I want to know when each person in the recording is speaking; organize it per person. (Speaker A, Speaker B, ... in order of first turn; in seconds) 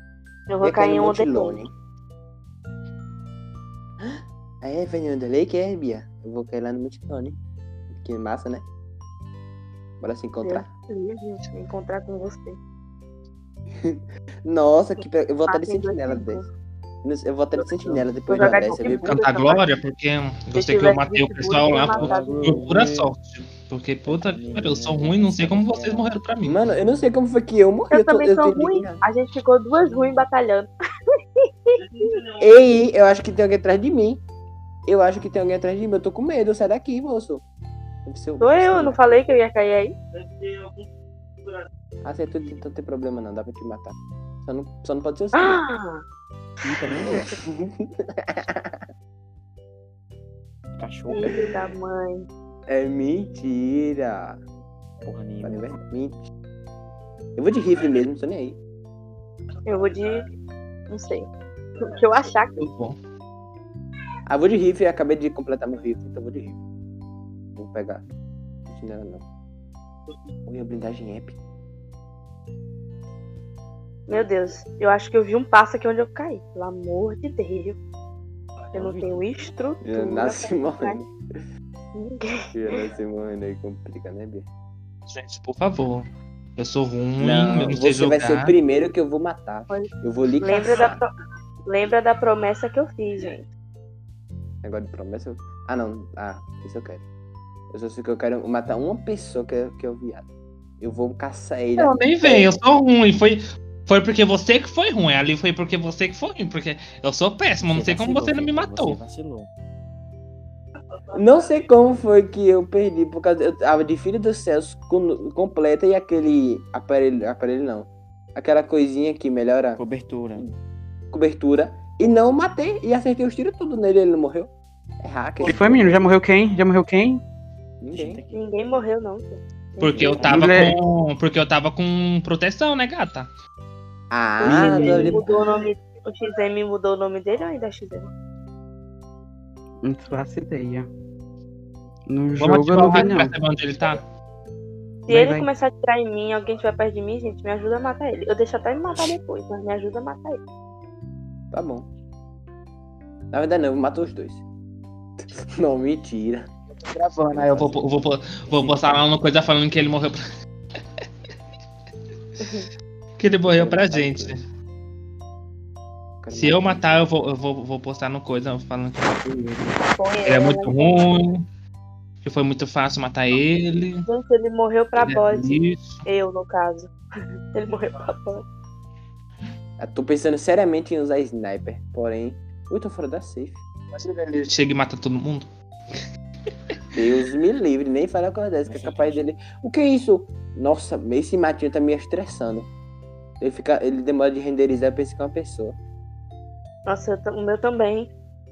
Speaker A: 0.5-1.6, 10.4-12.6, 15.5-16.5, 18.3-19.6, 20.5-22.5, 27.9-30.7, 31.4-32.2, 38.4-40.0, 45.3-46.0, 51.1-52.3, 59.7-60.2, 60.9-61.3, 61.8-62.6, 74.1-77.8, 78.7-81.0, 81.9-82.8, 89.7-91.1, 91.7-93.5, 128.3-130.4, 134.4-138.1, 145.1-150.4, 162.4-162.7, 170.0-171.0, 174.1-176.9, 177.5-178.5, 196.9-198.1
Speaker B: 0.6-1.7, 4.0-7.4, 7.9-8.7, 10.0-10.7, 13.8-16.5, 17.0-19.2, 26.4-29.0, 32.4-34.2, 34.9-37.4, 38.1-39.2, 42.0-43.9, 44.5-45.6, 46.9-48.8, 51.2-51.5, 52.7-54.4, 55.4-56.2, 57.4-58.6, 64.3-66.6, 67.6-68.0, 68.7-69.2, 70.5-71.4, 79.8-81.1, 82.5-84.5, 87.2-91.0, 94.6-97.0, 97.7-100.3, 100.8-102.6, 111.1-119.8, 121.1-126.0, 127.8-128.2, 134.1-135.4, 151.5-151.9, 153.3-154.4, 155.2-156.5, 157.3-157.8, 158.5-159.0, 163.4-164.3, 166.2-167.1, 179.8-183.6, 186.9-192.7, 193.4-195.8
Speaker C: 18.8-26.6, 62.6-63.0, 85.1-86.1, 86.6-88.5, 101.8-109.0, 129.8-133.3, 142.4-144.0, 156.8-160.2, 163.2-164.4, 166.3-171.4, 172.2-174.1, 175.0-176.0, 183.9-186.0
Speaker D: 21.9-23.1, 24.1-26.1, 46.6-47.3, 50.8-51.5, 55.0-55.8, 78.7-79.2, 107.6-109.5, 119.8-120.5, 127.9-128.4, 129.9-130.8, 188.7-189.3
Speaker E: 125.4-127.2, 130.3-130.8, 134.5-135.2, 139.8-140.9, 142.1-143.3, 145.1-145.5